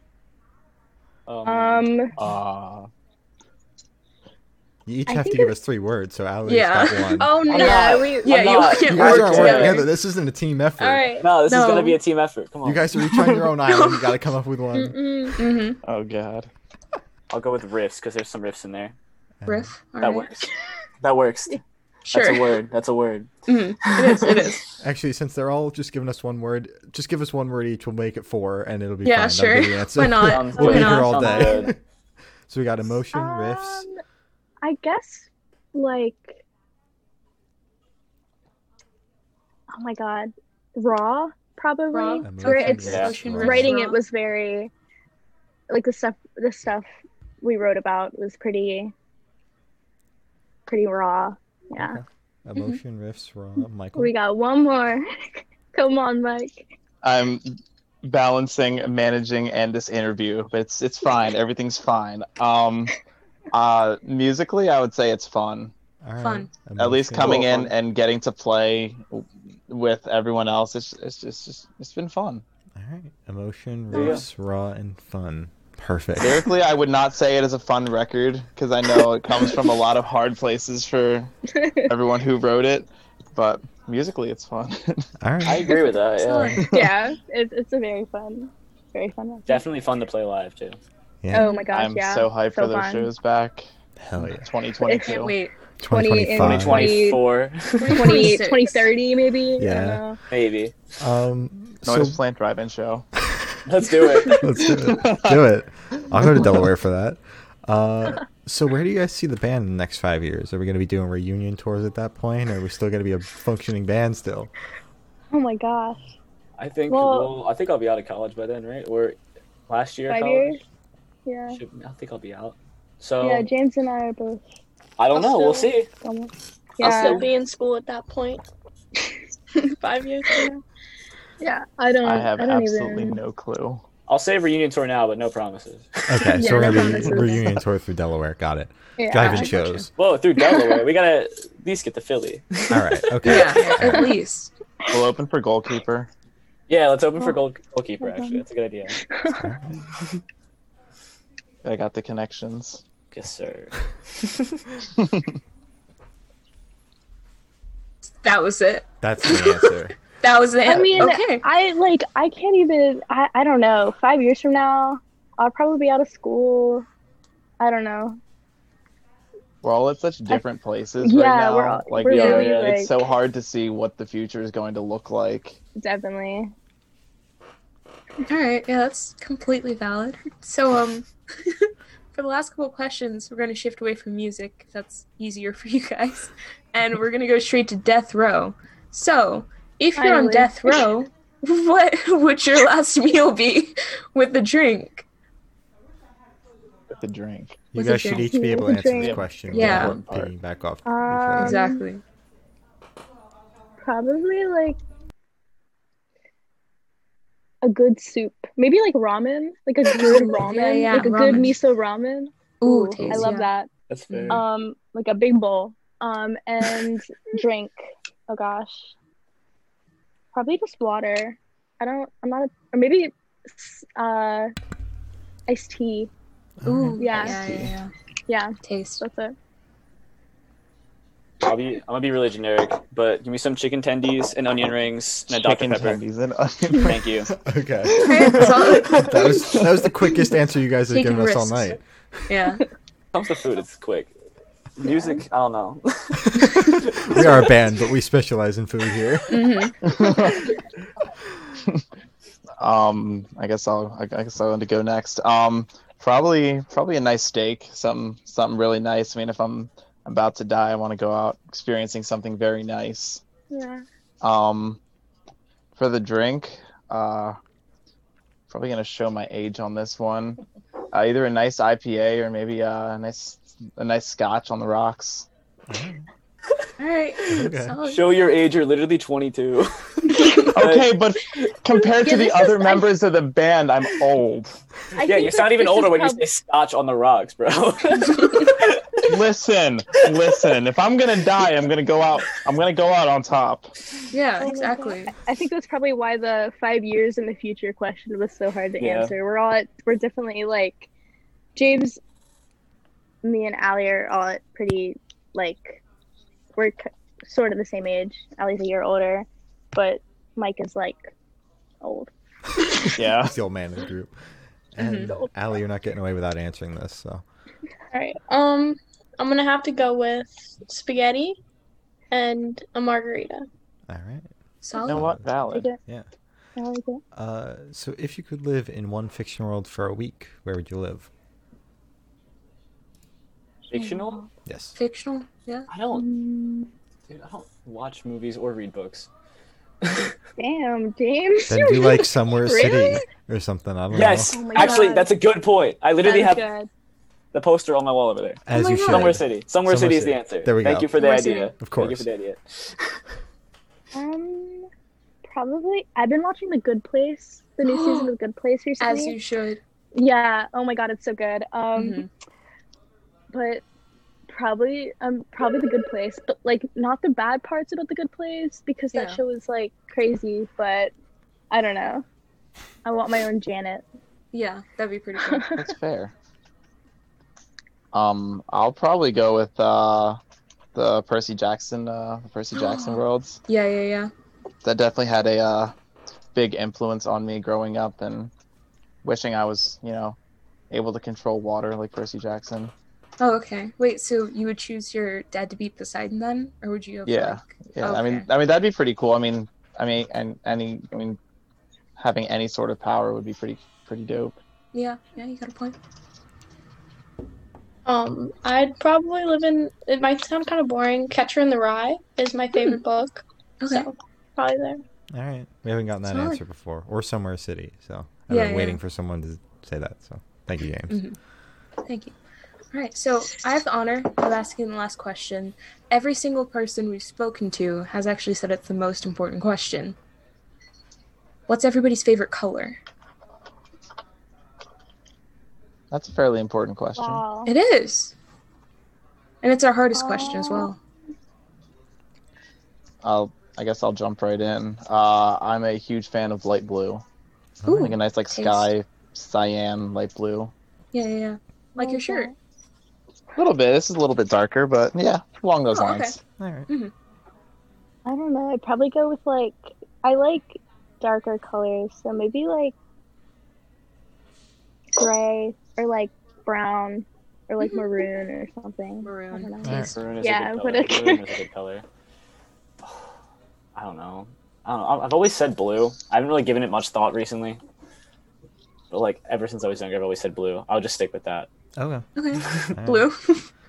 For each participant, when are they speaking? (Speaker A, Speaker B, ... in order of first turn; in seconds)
Speaker A: 1.3-2.0, 7.5-9.8, 11.2-13.3, 17.3-18.9, 20.0-21.6, 22.1-24.3, 30.2-31.7, 42.8-43.2, 67.2-67.7, 73.9-74.2, 85.4-86.6, 89.5-90.8, 96.3-98.3, 100.3-100.8, 103.6-104.5, 116.6-119.2, 119.7-120.6, 121.5-123.5, 125.0-125.9, 126.8-127.2, 134.1-136.4, 139.9-143.7, 146.7-149.0, 153.1-154.6, 172.1-172.7, 213.0-213.3, 213.9-214.4, 231.4-236.0, 236.7-237.3, 243.1-244.1, 244.8-247.3, 277.9-281.0, 285.0-289.0, 298.8-299.1, 333.7-334.2, 335.7-336.0, 337.1-339.1, 339.8-340.1, 343.9-346.4, 347.3-353.0, 469.9-471.9, 473.7-477.6, 478.9-481.5, 482.4-482.7
Speaker B: 1.4-2.1, 5.1-5.5, 7.2-8.8, 10.8-11.2, 14.7-15.4, 31.3-31.7, 33.1-34.0, 34.6-36.4, 39.7-44.7, 45.7-46.9, 47.4-48.9, 50.7-52.0, 53.9-56.7, 81.5-81.9, 86.6-89.6, 91.3-93.1, 94.8-95.3, 95.8-97.2, 97.8-100.2, 115.3-116.1, 116.9-117.3, 120.1-120.6, 121.2-121.6, 123.2-124.4, 126.0-127.2, 131.4-133.2, 136.3-137.4, 139.0-139.6, 140.4-140.8, 148.0-148.4, 149.0-149.5, 160.6-166.9, 167.6-168.2, 171.0-173.1, 175.8-176.5, 189.9-190.8, 198.1-199.2, 200.8-201.8, 203.8-204.8, 207.6-213.7, 214.3-218.9, 220.3-224.5, 225.5-226.1, 227.0-227.4, 228.3-229.3, 244.8-245.2, 263.5-263.8, 281.9-282.9, 284.9-286.2, 294.4-300.9, 301.5-302.0, 303.2-305.8, 306.5-311.1, 311.8-312.1, 325.5-325.8, 326.6-327.0, 335.9-336.7, 340.4-343.0, 344.3-345.1, 346.0-346.7, 353.9-354.7, 355.2-359.1, 359.9-362.0, 363.3-363.6, 364.3-370.9, 371.5-372.0, 372.8-373.9, 375.2-375.7, 436.9-437.5, 439.9-440.7, 451.8-452.3, 458.0-462.7, 464.9-471.2
Speaker C: 2.2-2.9, 15.8-16.5, 57.0-63.0, 63.5-65.7, 66.8-72.4, 76.2-85.1, 86.6-86.9, 91.7-93.7, 94.2-95.3, 101.8-103.0, 104.6-105.4, 132.0-133.8, 144.9-146.1, 151.6-152.8, 155.0-155.2, 169.6-175.6, 196.9-197.6, 198.9-200.3, 235.3-236.9, 238.0-238.5, 249.8-250.5, 252.6-263.2, 264.2-264.8, 265.7-267.4, 268.5-270.4, 270.9-275.3, 280.5-284.6, 289.0-293.7, 312.9-313.3, 324.8-325.7, 375.6-376.1, 377.9-380.2, 380.7-383.4, 384.6-385.7, 386.3-388.3, 389.0-390.2, 390.7-392.7, 397.0-401.2, 402.0-404.4, 435.9-437.2, 443.0-447.0, 447.7-450.5, 453.4-456.2
Speaker D: 4.8-7.3, 8.8-11.1, 12.6-15.0, 19.4-19.7, 24.8-31.8, 32.5-33.9, 42.2-43.8, 51.7-54.1, 66.0-67.7, 72.8-76.5, 85.2-85.8, 91.2-91.5, 94.0-94.5, 95.8-97.0, 99.6-100.0, 101.0-102.2, 104.3-114.5, 136.1-139.9, 142.7-144.1, 149.3-149.8, 159.0-160.0, 197.7-201.7, 226.6-227.3, 237.3-242.3, 246.2-249.6, 275.7-276.1, 277.3-277.8, 313.0-314.1, 314.7-317.2, 323.9-326.1, 327.1-331.1, 334.4-334.8, 341.5-344.4, 348.5-350.9, 351.6-352.1, 415.1-421.0, 447.6-447.9, 456.4-456.7, 469.6-469.9, 481.8-483.1
Speaker E: 6.5-9.9, 11.4-12.0, 13.7-14.1, 15.4-15.8, 19.4-20.3, 22.1-22.5, 23.5-24.7, 29.0-31.5, 41.9-44.0, 66.2-66.5, 86.2-86.7, 91.4-91.7, 95.1-95.5, 97.8-98.9, 143.2-144.5, 158.2-161.5, 178.2-195.1, 197.7-198.2, 199.5-200.0, 201.4-202.0, 209.9-211.6, 212.6-213.5, 214.1-214.4, 226.7-227.9, 228.6-229.0, 238.0-239.4, 240.9-241.8, 242.3-242.6, 249.3-249.8, 276.8-278.1, 288.2-288.5, 294.1-295.1, 314.8-315.2, 324.6-325.1, 334.8-335.7, 344.5-344.9, 348.5-349.2, 351.0-351.5, 357.6-358.1, 358.8-359.6, 361.8-362.1, 368.9-369.2, 374.3-375.6, 382.6-384.1, 393.2-398.3, 404.7-405.8, 413.6-413.9, 416.1-416.4, 418.3-418.8, 420.9-421.2, 421.8-422.1, 422.7-430.0, 431.5-432.8, 437.4-438.1, 439.4-440.8, 447.6-448.7, 450.9-452.3, 455.7-456.1, 469.0-469.7, 482.1-483.5
Speaker F: 125.1-125.7, 126.8-128.4, 129.8-130.6, 317.9-321.4, 322.1-323.4, 407.9-414.8